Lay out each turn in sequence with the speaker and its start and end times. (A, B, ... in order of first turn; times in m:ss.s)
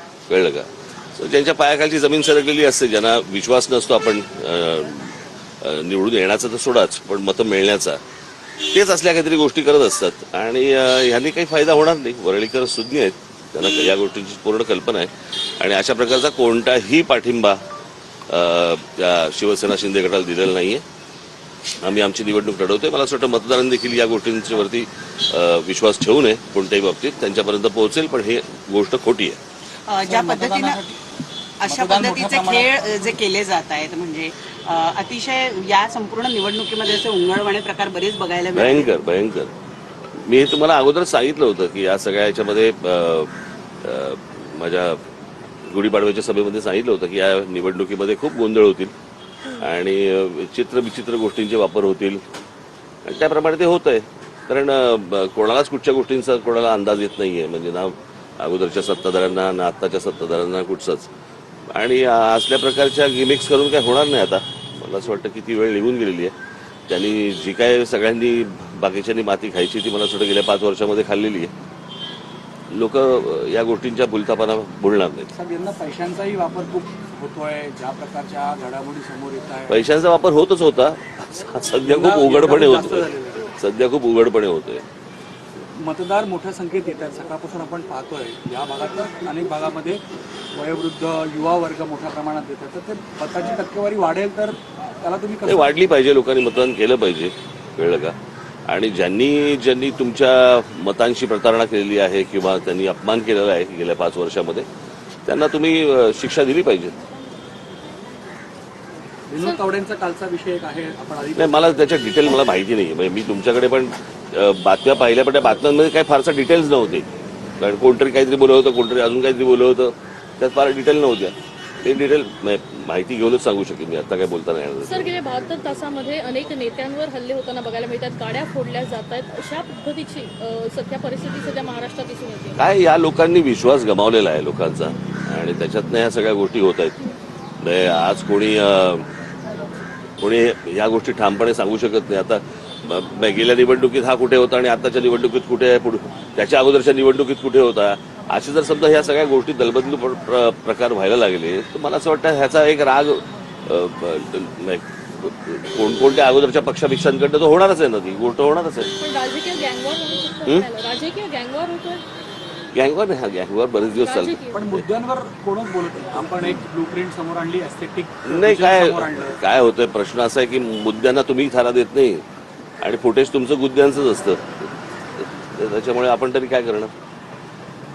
0:00.3-0:08.0 A
0:08.6-0:17.6 A
0:18.3-0:20.8 A
0:21.8-0:29.4 A
0:29.9-0:30.8 B
0:30.0-0:31.0 C
0:31.6-0:38.9 B
0:31.6-0:32.8 C
0:38.5-0:39.5 A
0:40.2-0:45.0 A
0:45.6-0:48.9 A
0:49.6-0:52.2 A
0:53.0-1:01.1 A
1:01.7-1:06.3 A
1:06.9-1:11.5 A
1:12.7-1:15.3 A
1:15.3-1:19.8 C
1:19.7-1:24.8 A
1:21.8-1:23.5 C
1:25.8-1:30.0 C
1:30.5-1:35.7 C
1:35.4-1:38.2 A
1:38.7-1:44.6 A
1:45.2-1:46.9 A
1:49.3-1:51.8 C
1:51.4-1:57.1 A
1:57.6-2:05.1 A
2:04.8-2:12.6 D
2:12.6-2:17.0 A
2:17.6-2:19.0 A
2:20.2-2:38.9 A
2:39.0-2:42.0 D
2:42.7-2:44.8 A
2:43.9-2:44.6 D
2:44.5-2:49.4 C
2:48.2-2:52.2 A
2:52.8-2:54.5 A
2:55.4-2:56.9 A